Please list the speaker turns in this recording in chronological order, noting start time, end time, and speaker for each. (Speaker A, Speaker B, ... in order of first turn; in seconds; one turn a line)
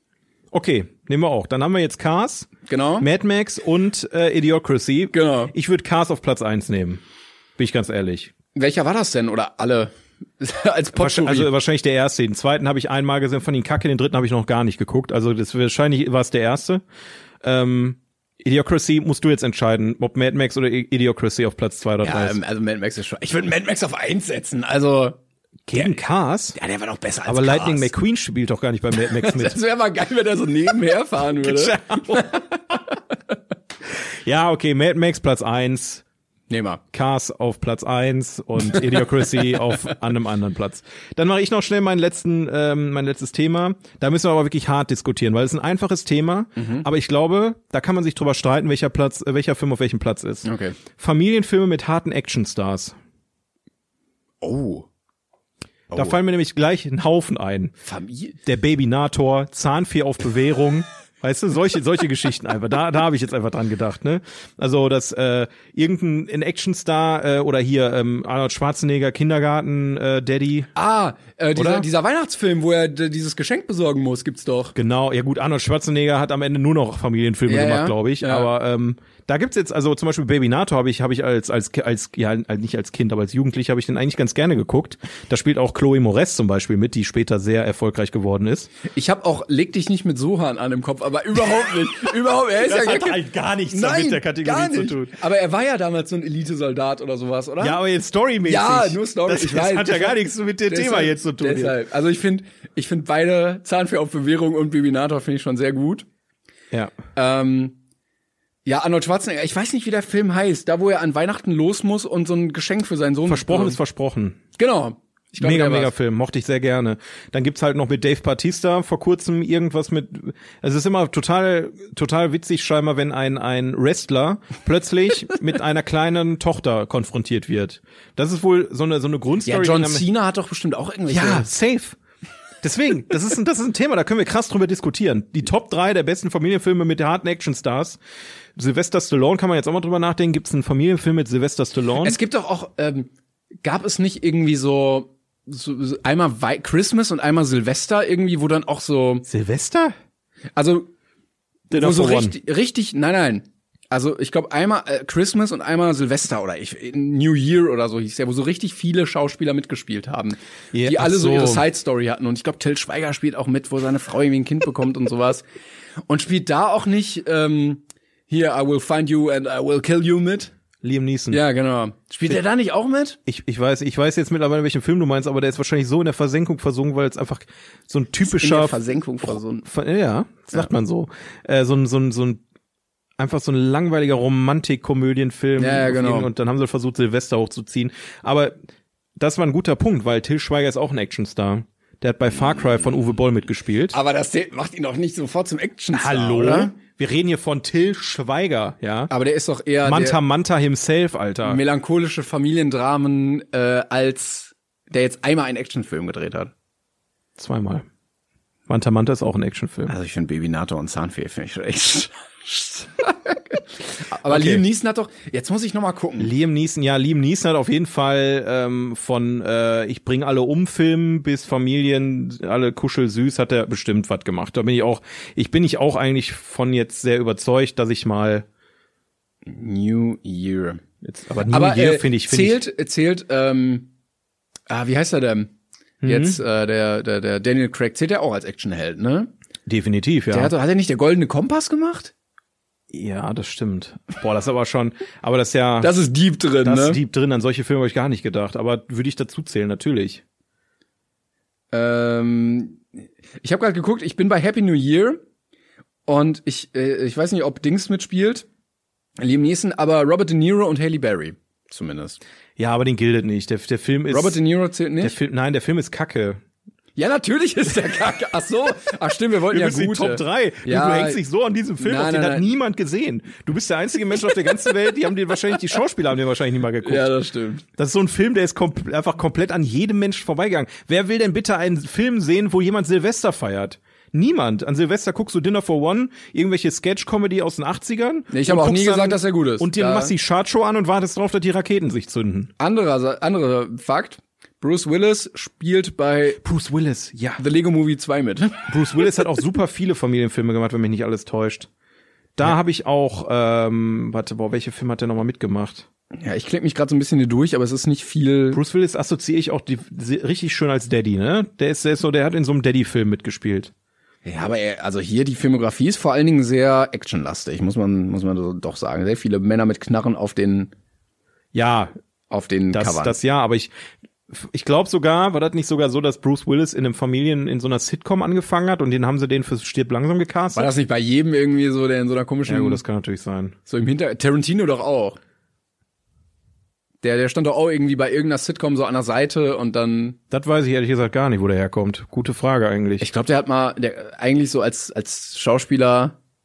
Speaker A: 0.5-7.0
Speaker B: 2.7-3.1
Speaker B: 5.1-5.5
Speaker A: 7.6-8.3
Speaker B: 8.5-11.5
Speaker A: 11.0-16.8
Speaker A: 17.4-22.4
Speaker B: 22.0-25.2
Speaker A: 25.7-26.6
Speaker B: 25.7-26.0
Speaker B: 26.6-27.9
Speaker A: 27.3-29.6
Speaker B: 29.0-32.5
Speaker A: 31.4-32.4
Speaker A: 34.2-36.0
Speaker B: 36.5-36.8
Speaker A: 36.9-53.0
Speaker B: 46.6-46.9
Speaker B: 50.4-50.8
Speaker B: 54.4-54.9
Speaker A: 55.9-57.7
Speaker B: 57.8-58.4
Speaker A: 58.5-70.7
Speaker B: 70.8-74.8
Speaker A: 71.6-71.9
Speaker A: 74.8-88.7
Speaker B: 77.5-78.5
Speaker B: 88.8-97.8
Speaker A: 92.5-95.1
Speaker A: 97.6-101.8
Speaker B: 98.5-106.1
Speaker B: 107.2-107.8
Speaker B: 108.7-113.8
Speaker A: 113.3-114.4
Speaker B: 114.6-115.9
Speaker A: 115.4-130.1
Speaker B: 129.4-131.5
Speaker A: 131.1-132.0
Speaker A: 132.6-138.0
Speaker A: 138.6-142.2
Speaker B: 142.0-143.1
Speaker B: 143.6-149.3
Speaker A: 149.3-149.9
Speaker B: 150.6-150.9
Speaker A: 151.7-152.3
Speaker B: 151.7-165.4
Speaker A: 160.7-161.7
Speaker B: 166.1-170.5
Speaker A: 170.8-171.4
Speaker B: 171.3-173.2
Speaker A: 173.3-182.4
Speaker B: 178.2-179.7
Speaker A: 183.2-188.6
Speaker B: 185.6-186.3
Speaker A: 189.2-194.0
Speaker B: 193.9-196.8
Speaker A: 195.9-199.1
Speaker B: 199.1-200.2
Speaker A: 199.8-201.6
Speaker B: 201.4-206.5
Speaker A: 207.4-207.8
Speaker A: 208.7-209.9
Speaker B: 209.9-216.3
Speaker A: 214.3-214.6
Speaker A: 216.2-228.4
Speaker B: 229.5-230.8
Speaker A: 231.0-232.6
Speaker B: 231.5-233.9
Speaker B: 234.7-235.5
Speaker A: 236.0-236.4
Speaker B: 236.1-239.3
Speaker A: 239.7-240.5
Speaker B: 240.3-242.1
Speaker A: 242.9-246.0
Speaker B: 245.8-247.0
Speaker A: 246.6-250.2
Speaker B: 251.7-252.8
Speaker B: 253.4-255.2
Speaker B: 256.1-258.5
Speaker B: 259.2-262.2
Speaker A: 262.6-264.4
Speaker B: 264.1-265.1
Speaker A: 265.0-266.4
Speaker B: 267.0-271.2
Speaker A: 269.5-277.1
Speaker B: 271.8-272.5
Speaker B: 276.9-277.6
Speaker A: 277.8-292.5
Speaker B: 288.3-290.1
Speaker B: 292.6-296.4
Speaker A: 296.4-297.4
Speaker B: 297.4-298.7
Speaker A: 298.7-301.7
Speaker A: 302.4-305.9
Speaker B: 306.1-308.6
Speaker A: 308.5-313.7
Speaker B: 314.2-320.7
Speaker A: 321.5-321.9
Speaker B: 322.3-323.2
Speaker A: 322.7-323.7
Speaker A: 324.3-330.7
Speaker B: 330.6-332.8
Speaker A: 332.5-333.6
Speaker B: 333.7-335.2
Speaker B: 337.0-340.2
Speaker A: 340.3-343.1
Speaker B: 343.0-346.2